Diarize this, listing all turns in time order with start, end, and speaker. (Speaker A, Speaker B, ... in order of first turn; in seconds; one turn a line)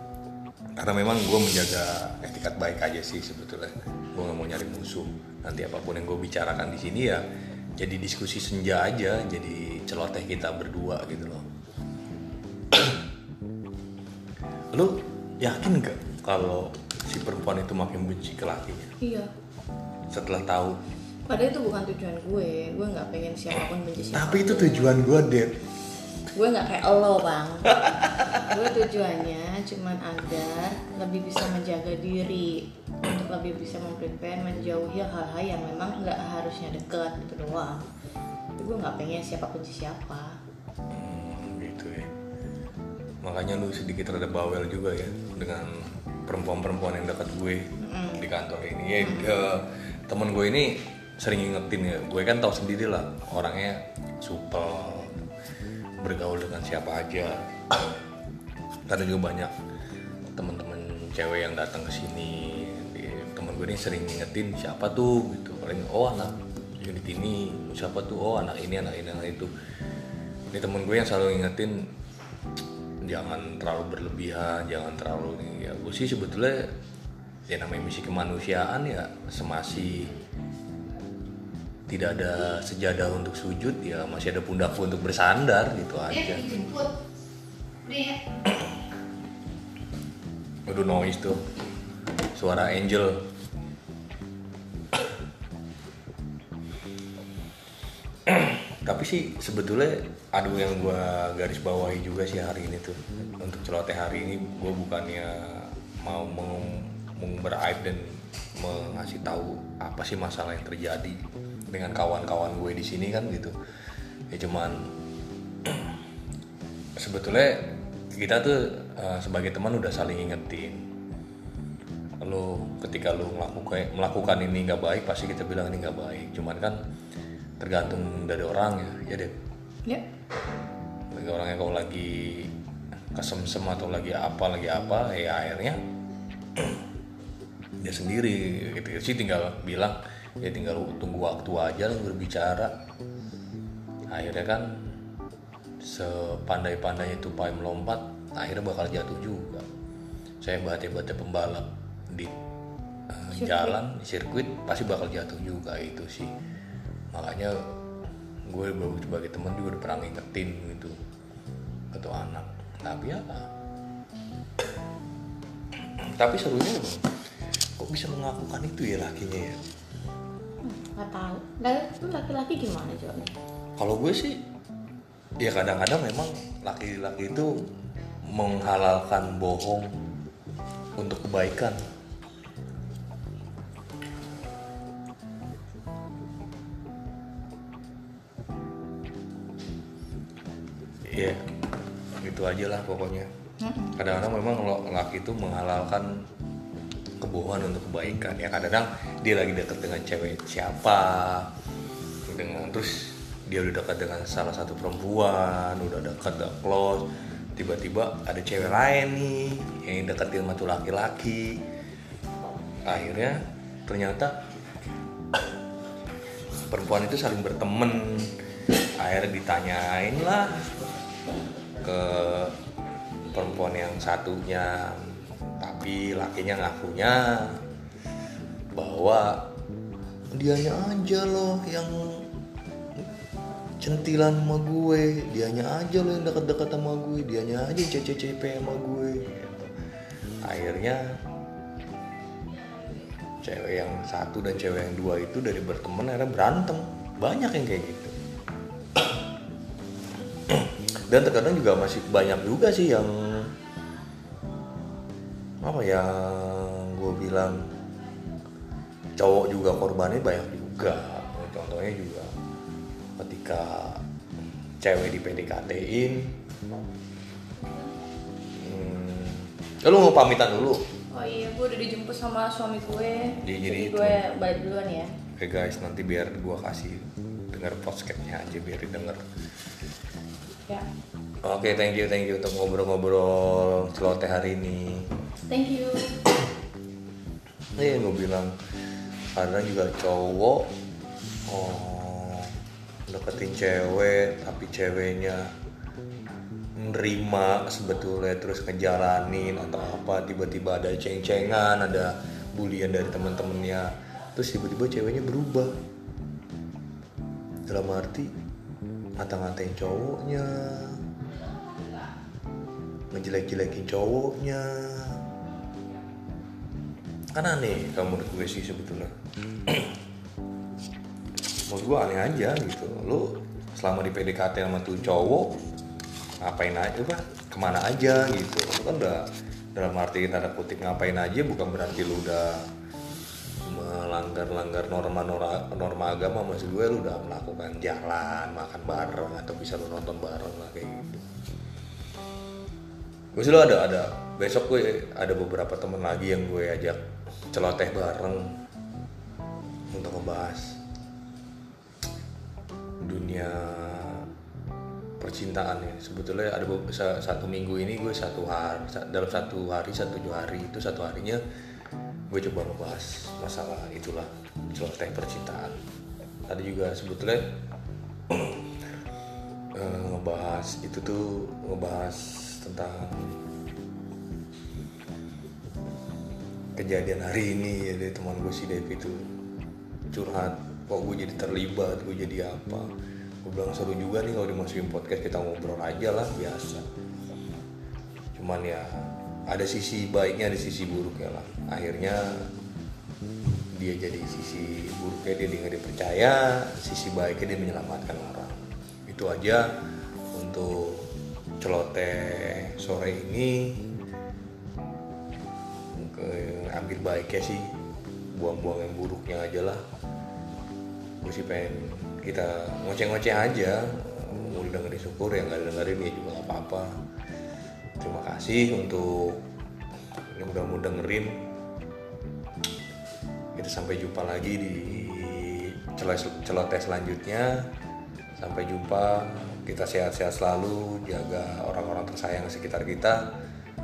Speaker A: 0.8-7.2
Speaker A: 7.8-11.4
Speaker A: 14.7-18.9
Speaker B: 19.0-19.3
Speaker A: 20.1-20.8
Speaker B: 21.3-24.9
Speaker A: 24.1-25.5
Speaker B: 26.3-37.8
Speaker B: 38.6-40.4
Speaker A: 40.9-42.1
Speaker A: 43.2-55.2
Speaker B: 47.8-48.2
Speaker B: 49.0-49.4
Speaker A: 56.0-58.0
Speaker A: 58.9-59.5
Speaker A: 60.3-69.5
Speaker A: 70.5-71.9
Speaker A: 73.0-76.7
Speaker A: 77.5-80.1
Speaker A: 81.9-86.9
Speaker A: 90.7-91.4
Speaker A: 92.3-93.2
Speaker A: 98.2-111.2
Speaker A: 111.7-113.5
Speaker A: 114.3-114.9
Speaker A: 115.6-116.0
Speaker A: 117.0-120.8
Speaker A: 122.2-126.8
Speaker A: 127.6-129.3
Speaker A: 131.1-132.5
Speaker A: 133.1-135.8
Speaker A: 137.8-142.7
Speaker A: 144.1-144.8
Speaker A: 145.8-149.7
Speaker A: 150.4-152.3
Speaker A: 153.1-156.3
Speaker B: 153.3-153.7
Speaker A: 157.1-157.7
Speaker A: 158.5-161.0
Speaker A: 161.9-163.5
Speaker A: 166.0-167.0
Speaker A: 167.8-169.6
Speaker B: 170.6-173.3
Speaker A: 173.8-174.4
Speaker A: 175.4-177.6
Speaker A: 178.3-179.9
Speaker A: 181.0-181.8
Speaker A: 191.1-191.4
Speaker A: 192.2-193.3
Speaker B: 193.6-194.0
Speaker A: 194.0-196.2
Speaker A: 197.2-201.5
Speaker A: 202.3-211.6
Speaker A: 212.8-214.4
Speaker A: 216.7-218.3
Speaker A: 219.0-220.7
Speaker A: 221.8-222.6
Speaker A: 223.3-227.6
Speaker A: 228.7-229.5
Speaker A: 230.3-232.3
Speaker A: 233.8-239.7
Speaker A: 240.4-241.2
Speaker A: 243.4-248.1
Speaker A: 250.5-253.5
Speaker A: 255.6-257.7
Speaker A: 259.2-262.3
Speaker A: 263.2-264.0
Speaker A: 264.8-266.4
Speaker A: 268.6-270.8
Speaker B: 271.1-275.1
Speaker A: 273.4-274.2
Speaker A: 275.4-279.2
Speaker A: 281.4-285.1
Speaker B: 285.5-286.3
Speaker A: 287.8-288.5
Speaker A: 289.3-290.7
Speaker A: 291.5-292.5
Speaker A: 293.1-295.5
Speaker A: 296.8-305.7
Speaker A: 307.7-308.3
Speaker A: 309.2-311.0
Speaker A: 313.1-315.2
Speaker A: 317.3-319.1
Speaker A: 319.7-320.0
Speaker A: 321.7-325.6
Speaker A: 326.4-332.6
Speaker A: 333.6-341.2
Speaker A: 343.3-347.0
Speaker A: 347.5-348.5
Speaker A: 349.9-350.8
Speaker A: 353.0-354.3
Speaker A: 355.2-361.4
Speaker A: 362.3-365.8
Speaker A: 366.5-367.5
Speaker A: 368.3-368.6
Speaker A: 369.7-373.4
Speaker A: 376.8-379.3
Speaker A: 380.1-382.9
Speaker A: 383.4-386.9
Speaker A: 388.3-392.5
Speaker A: 393.7-399.7
Speaker A: 400.3-401.1
Speaker A: 401.6-403.8
Speaker A: 405.9-407.7
Speaker A: 408.3-409.8
Speaker A: 411.2-417.0
Speaker A: 418.0-419.4
Speaker A: 420.3-421.4
Speaker A: 423.6-427.7
Speaker A: 428.4-433.2